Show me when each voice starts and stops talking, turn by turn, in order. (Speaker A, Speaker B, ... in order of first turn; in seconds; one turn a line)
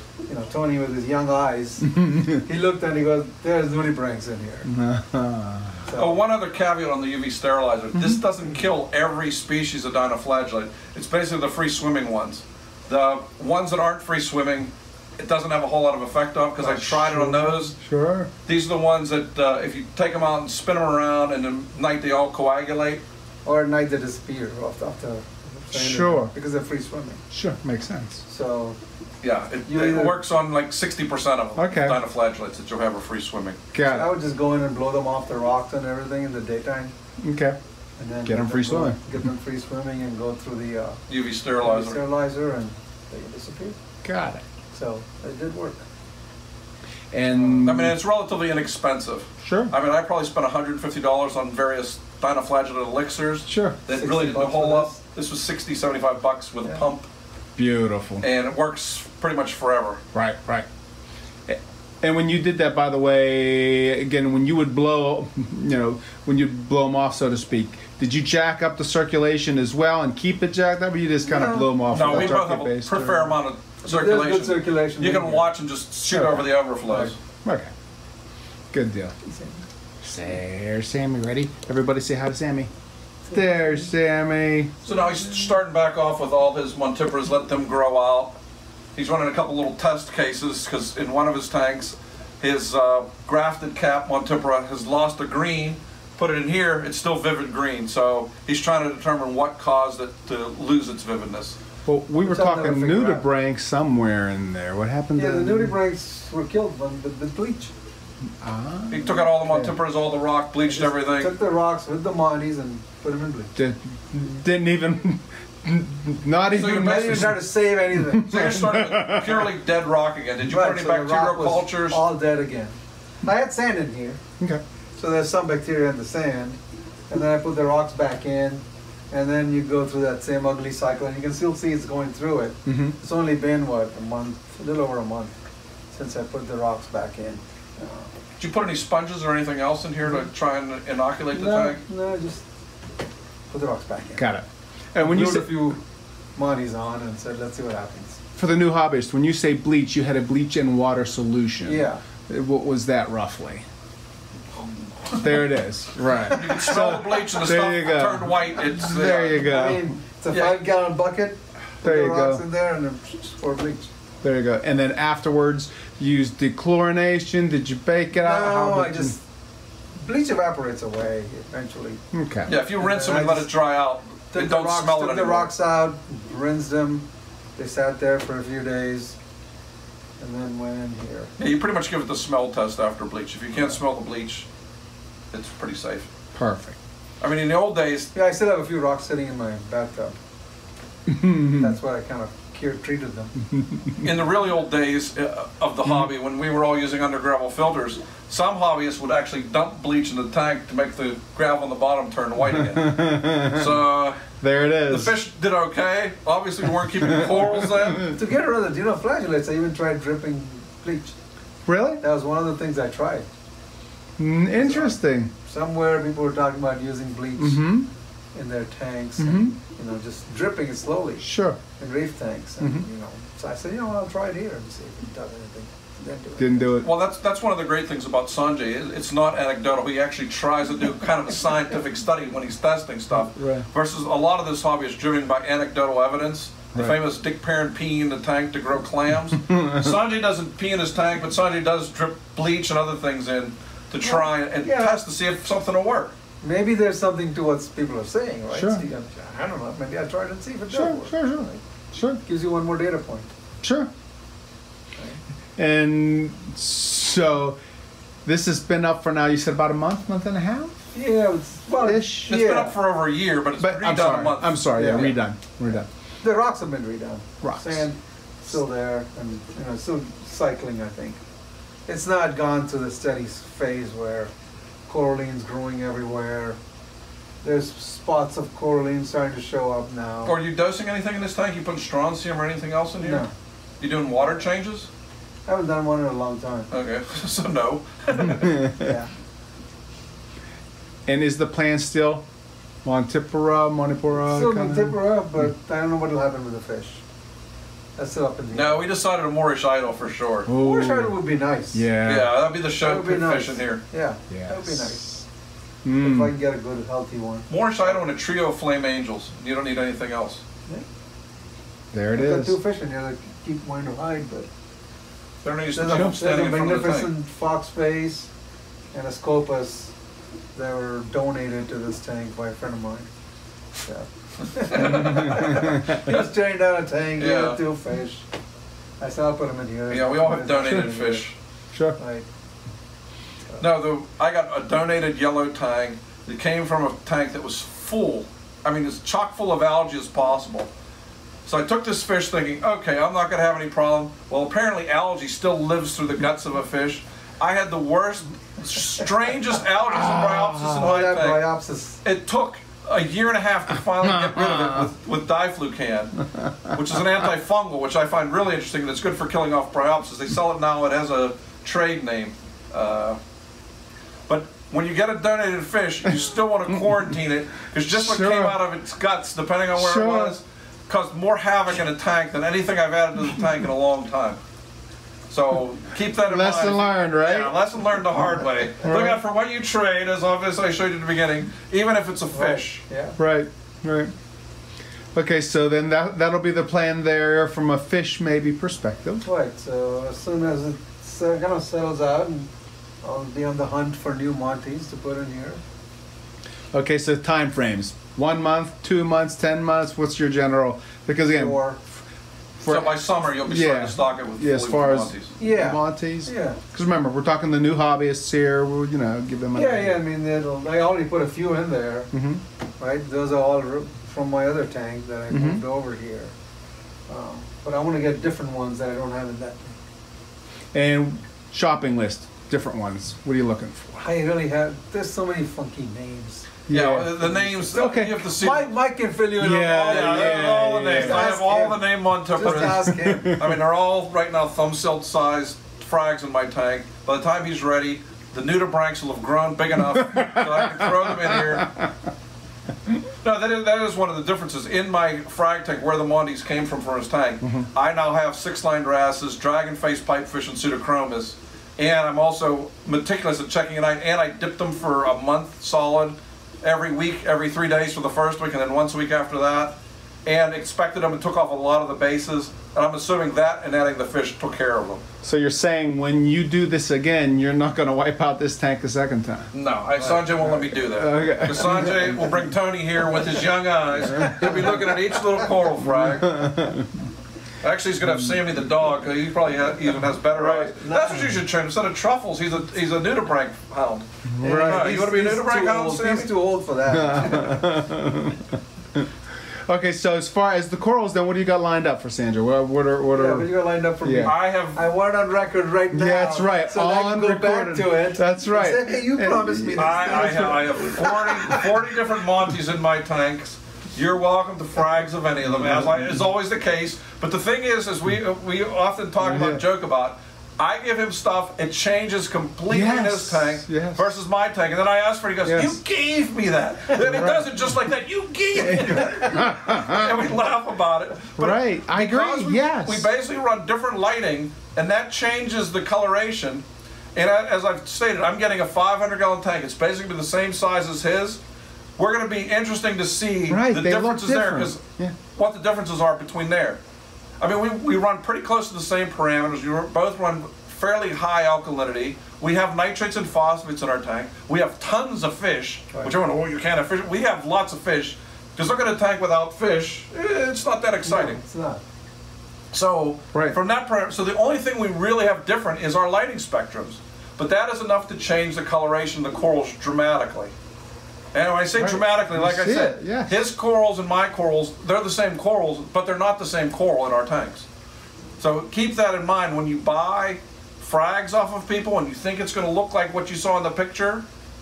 Speaker A: 0.3-4.7
Speaker B: 1.9-2.4
Speaker B: 4.7-5.8
Speaker A: 5.8-6.2
Speaker C: 6.0-17.8
Speaker A: 16.6-17.5
Speaker B: 17.1-18.3
Speaker C: 18.5-23.0
Speaker A: 23.4-27.2
Speaker B: 25.7-26.3
Speaker B: 27.3-28.2
Speaker A: 28.2-28.8
Speaker C: 29.2-33.6
Speaker A: 29.7-30.2
Speaker B: 31.6-32.0
Speaker B: 33.7-34.1
Speaker A: 33.8-36.9
Speaker B: 37.2-37.6
Speaker A: 38.0-41.0
Speaker B: 38.2-39.0
Speaker C: 41.1-42.0
Speaker A: 41.6-43.8
Speaker B: 44.0-44.4
Speaker A: 44.7-45.8
Speaker B: 47.1-48.0
Speaker A: 47.3-47.7
Speaker C: 47.6-57.1
Speaker B: 49.4-49.7
Speaker B: 53.5-53.8
Speaker A: 53.9-55.0
Speaker B: 57.6-58.2
Speaker C: 58.2-60.0
Speaker B: 60.1-60.7
Speaker B: 61.5-73.4
Speaker A: 71.3-72.3
Speaker C: 71.9-77.2
Speaker A: 73.8-75.5
Speaker B: 76.1-76.5
Speaker A: 76.9-77.1
Speaker B: 77.5-77.7
Speaker B: 78.7-79.1
Speaker A: 79.2-79.6
Speaker B: 80.0-82.7
Speaker B: 83.3-84.7
Speaker C: 84.8-88.3
Speaker C: 89.0-101.6
Speaker B: 101.8-105.8
Speaker A: 102.2-103.3
Speaker A: 105.2-107.7
Speaker B: 108.4-109.8
Speaker C: 108.9-111.3
Speaker A: 110.7-113.5
Speaker B: 113.6-119.5
Speaker C: 116.5-117.4
Speaker A: 116.6-118.5
Speaker C: 118.3-122.0
Speaker A: 120.4-124.2
Speaker A: 125.0-126.6
Speaker A: 127.1-135.3
Speaker B: 132.7-132.9
Speaker A: 135.9-138.1
Speaker C: 138.4-141.8
Speaker A: 141.3-142.4
Speaker A: 143.5-144.2
Speaker B: 144.2-145.6
Speaker A: 145.0-145.8
Speaker A: 146.4-148.2
Speaker B: 148.3-153.6
Speaker A: 151.6-152.0
Speaker B: 155.2-159.9
Speaker C: 156.3-159.5
Speaker A: 159.3-163.9
Speaker C: 160.3-160.7
Speaker B: 161.8-162.4
Speaker B: 164.2-169.1
Speaker A: 168.2-169.2
Speaker A: 170.0-172.0
Speaker B: 172.1-172.5
Speaker C: 172.5-175.5
Speaker A: 172.6-173.5
Speaker A: 174.3-179.2
Speaker A: 180.2-181.3
Speaker C: 181.4-184.5
Speaker C: 185.3-186.1
Speaker B: 186.3-186.8
Speaker C: 187.2-188.1
Speaker A: 188.1-190.2
Speaker B: 191.1-191.8
Speaker A: 191.6-193.3
Speaker B: 193.6-193.9
Speaker C: 194.0-204.2
Speaker B: 202.4-203.8
Speaker B: 204.4-205.2
Speaker C: 204.8-208.1
Speaker B: 207.0-208.1
Speaker A: 208.0-211.2
Speaker B: 211.7-212.0
Speaker A: 212.0-213.3
Speaker B: 214.2-215.3
Speaker A: 214.6-217.7
Speaker B: 217.4-217.9
Speaker A: 218.3-226.8
Speaker B: 219.2-219.6
Speaker B: 221.2-221.6
Speaker B: 226.4-226.9
Speaker C: 226.8-246.1
Speaker B: 233.1-233.7
Speaker A: 244.0-245.0
Speaker A: 246.4-251.6
Speaker B: 248.5-248.8
Speaker B: 250.7-252.2
Speaker A: 252.2-253.3
Speaker B: 253.6-253.9
Speaker B: 255.6-257.6
Speaker B: 258.2-260.8
Speaker A: 260.9-262.7
Speaker B: 261.8-262.3
Speaker C: 262.2-265.1
Speaker B: 263.6-265.9
Speaker A: 264.7-265.1
Speaker A: 266.2-271.2
Speaker B: 267.4-267.9
Speaker A: 271.9-274.3
Speaker A: 274.9-276.6
Speaker A: 277.4-280.4
Speaker C: 280.2-283.3
Speaker A: 283.0-283.3
Speaker C: 283.8-284.9
Speaker A: 285.5-286.7
Speaker C: 286.7-288.6
Speaker B: 288.4-288.9
Speaker A: 288.8-289.1
Speaker B: 291.1-292.2
Speaker B: 292.8-295.0
Speaker A: 294.2-297.0
Speaker A: 298.0-298.9
Speaker C: 298.5-300.5
Speaker B: 300.5-301.2
Speaker A: 300.6-301.9
Speaker B: 301.7-302.4
Speaker C: 302.0-303.8
Speaker A: 302.8-305.2
Speaker B: 304.3-304.9
Speaker B: 305.8-306.3
Speaker A: 305.9-308.0
Speaker C: 307.5-310.4
Speaker B: 311.9-312.6
Speaker A: 312.1-314.5
Speaker C: 315.4-317.1
Speaker A: 315.7-318.3
Speaker B: 315.9-316.2
Speaker A: 318.9-319.9
Speaker A: 320.6-323.1
Speaker A: 323.8-328.3
Speaker C: 324.6-326.3
Speaker B: 325.0-325.8
Speaker C: 327.2-327.6
Speaker A: 329.0-331.2
Speaker C: 329.9-331.4
Speaker A: 332.0-332.3
Speaker C: 333.6-340.7
Speaker C: 341.5-351.5
Speaker B: 349.9-350.9
Speaker A: 350.8-352.0
Speaker C: 352.0-363.2
Speaker B: 354.3-354.8
Speaker C: 364.3-374.4
Speaker B: 367.9-368.6
Speaker B: 369.8-370.4
Speaker C: 375.3-382.8
Speaker B: 376.2-377.6
Speaker B: 378.8-379.2
Speaker A: 382.3-383.2
Speaker B: 383.2-384.1
Speaker B: 385.1-389.2
Speaker A: 389.2-392.5
Speaker A: 393.0-395.6
Speaker B: 396.7-401.6
Speaker A: 401.3-401.8
Speaker B: 402.6-410.0
Speaker C: 402.7-405.3
Speaker A: 405.4-406.6
Speaker A: 409.5-412.1
Speaker B: 412.1-412.4
Speaker A: 412.8-416.3
Speaker B: 415.3-415.6
Speaker A: 417.1-419.8
Speaker B: 420.7-424.0
Speaker A: 424.0-426.5
Speaker B: 426.7-428.3
Speaker C: 426.7-428.7
Speaker A: 427.2-433.4
Speaker B: 429.4-431.4
Speaker C: 429.9-441.7
Speaker B: 432.4-433.5
Speaker B: 439.9-441.9
Speaker C: 443.2-465.0
Speaker B: 465.2-469.5
Speaker C: 469.5-476.3
Speaker B: 470.4-472.4
Speaker B: 474.1-474.9
Speaker B: 475.8-477.1
Speaker C: 477.6-486.3
Speaker B: 480.3-480.8
Speaker A: 480.8-481.3
Speaker B: 484.3-484.9
Speaker A: 484.4-487.7
Speaker B: 486.9-489.1
Speaker B: 489.7-493.5
Speaker A: 493.1-501.6
Speaker B: 494.0-494.4
Speaker C: 494.2-494.8
Speaker B: 495.9-501.7
Speaker C: 499.8-526.6
Speaker B: 505.6-506.0
Speaker B: 509.2-509.6
Speaker B: 512.7-514.1
Speaker B: 515.5-515.8
Speaker B: 517.0-517.5
Speaker B: 518.6-520.3
Speaker B: 521.4-523.1
Speaker C: 527.1-531.4
Speaker C: 532.0-534.8
Speaker B: 533.5-535.1
Speaker C: 535.4-536.8
Speaker C: 537.4-551.4
Speaker A: 551.0-551.8
Speaker C: 552.7-560.5
Speaker C: 561.3-567.7
Speaker B: 561.8-563.4
Speaker C: 568.4-574.2